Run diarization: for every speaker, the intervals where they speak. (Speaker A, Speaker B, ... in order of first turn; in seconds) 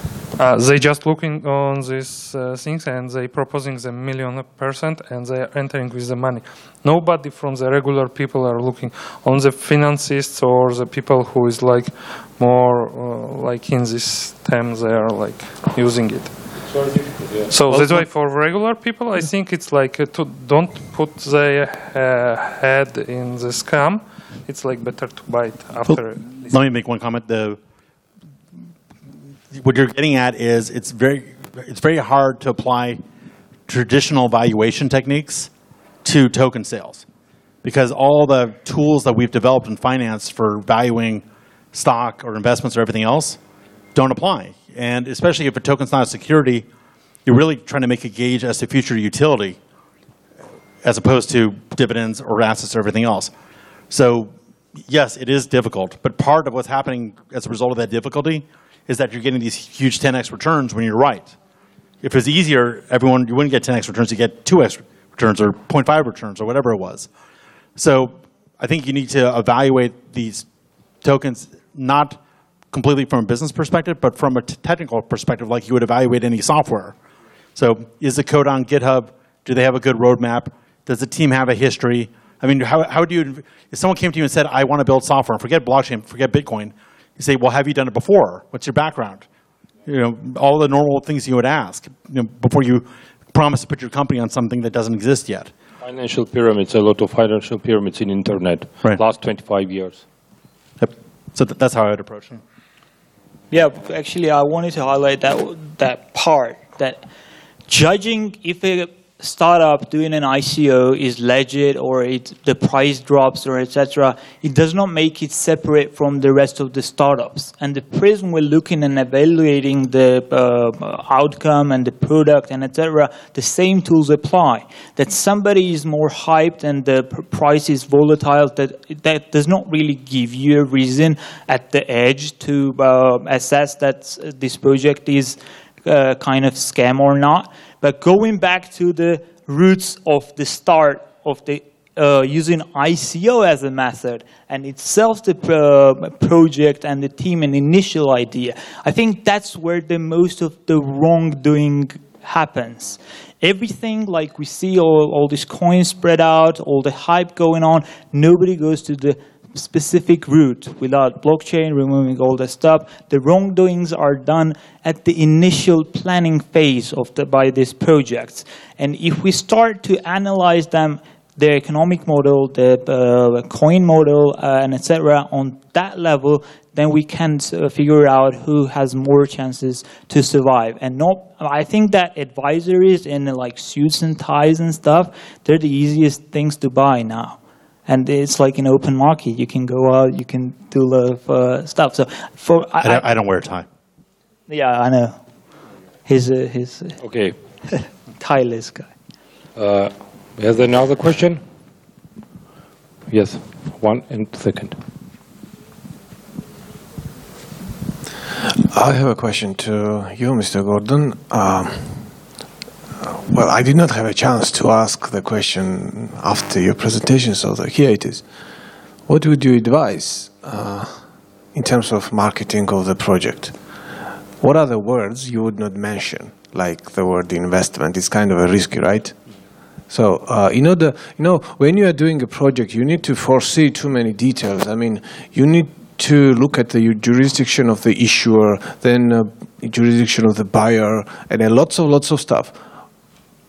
Speaker A: 0.4-16.3, 17.5-26.6
Speaker B: 16.7-18.0, 95.8-100.0, 197.0-197.3, 199.6-201.4, 203.1-204.8
Speaker C: 25.9-27.6, 29.5-33.0, 33.7-35.5, 36.0-37.1, 37.6-43.4, 43.9-46.7, 47.3-49.6, 50.8-53.3, 53.9-54.3, 54.9-61.4, 62.0-67.1, 67.8-70.5, 71.0-72.2, 72.7-77.0, 77.6-89.3, 89.9-95.5, 100.8-102.4, 192.8-193.7
Speaker D: 103.5-107.0, 107.7-193.1, 194.5-195.2, 196.1-197.0, 198.2-198.9
Speaker E: 208.7-212.2, 213.0-229.2, 229.9-242.6